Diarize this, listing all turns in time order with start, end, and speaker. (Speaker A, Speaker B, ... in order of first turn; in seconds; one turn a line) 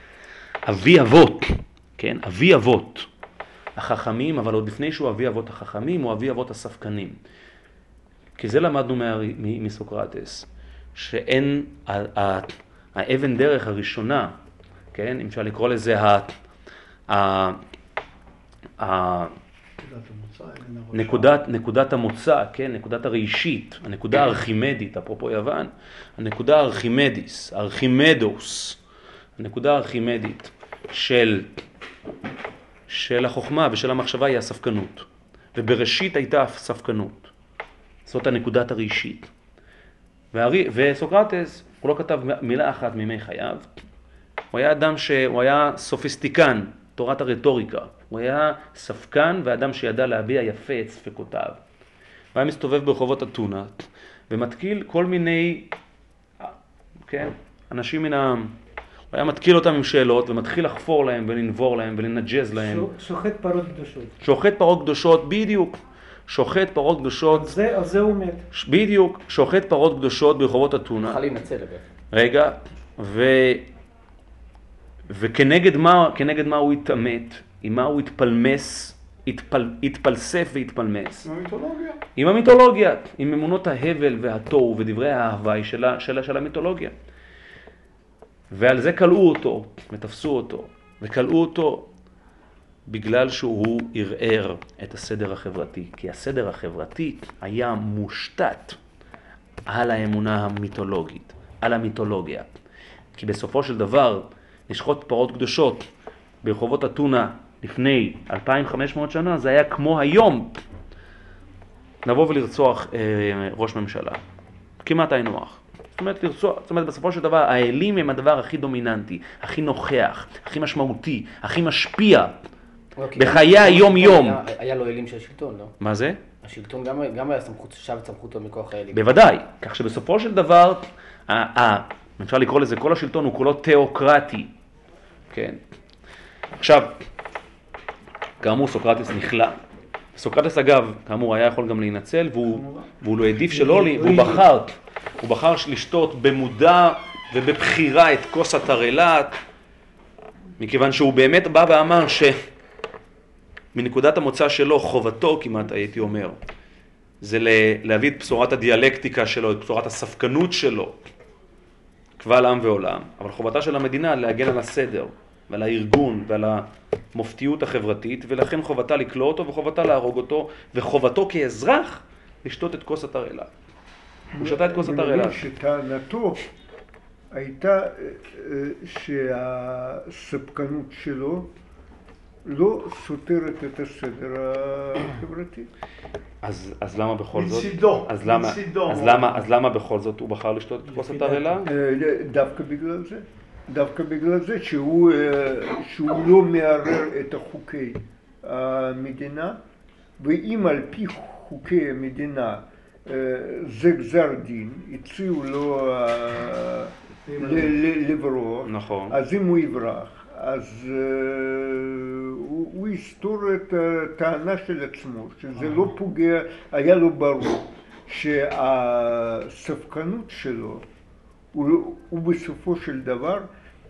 Speaker A: 0.7-3.1
Speaker A: 3.8-7.2
Speaker A: 8.4-14.3
Speaker A: 14.9-16.4
Speaker A: 17.1-17.6
Speaker A: 18.8-19.3
Speaker B: 19.8-21.3
Speaker A: 20.9-28.8
Speaker A: 29.4-31.5
Speaker A: 32.9-37.3
Speaker A: 38.1-39.3
Speaker A: 40.3-43.7
Speaker A: 44.5-51.6
Speaker A: 52.3-55.7
Speaker A: 57.1-58.5
Speaker A: 59.1-62.9
Speaker C: 62.5-64.1
Speaker A: 64.2-67.6
Speaker C: 67.3-68.4
Speaker A: 68.5-71.2
Speaker D: 71.0-71.9
Speaker A: 72.1-73.7
Speaker A: 75.1-81.3
Speaker B: 81.3-82.0
Speaker A: 82.2-87.0
Speaker A: 88.5-91.9
Speaker A: 92.9-98.8
Speaker A: 99.7-102.5
Speaker A: 103.2-105.9
Speaker A: 106.4-110.6
Speaker A: 112.0-114.2
Speaker A: 114.8-122.4
Speaker D: 123.0-125.7
Speaker A: 123.2-124.4
Speaker A: 125.8-126.2
Speaker D: 126.4-129.1
Speaker A: 128.9-134.5
Speaker A: 135.3-135.6
Speaker A: 136.6-136.9
Speaker A: 138.4-139.6
Speaker A: 140.2-149.4
Speaker B: 142.4-142.9
Speaker C: 143.5-144.4
Speaker A: 150.6-152.4
Speaker A: 153.7-156.4
Speaker A: 157.2-161.0
Speaker A: 162.2-173.5
Speaker E: 174.3-176.5
Speaker A: 174.4-175.4
Speaker E: 177.3-181.5
Speaker E: 182.4-185.7
Speaker A: 186.4-191.7
Speaker B: 187.3-189.5
Speaker C: 190.9-191.6
Speaker E: 191.7-199.6
Speaker E: 200.2-220.9
Speaker B: 207.3-207.8
Speaker A: 208.7-209.2
Speaker E: 221.5-223.5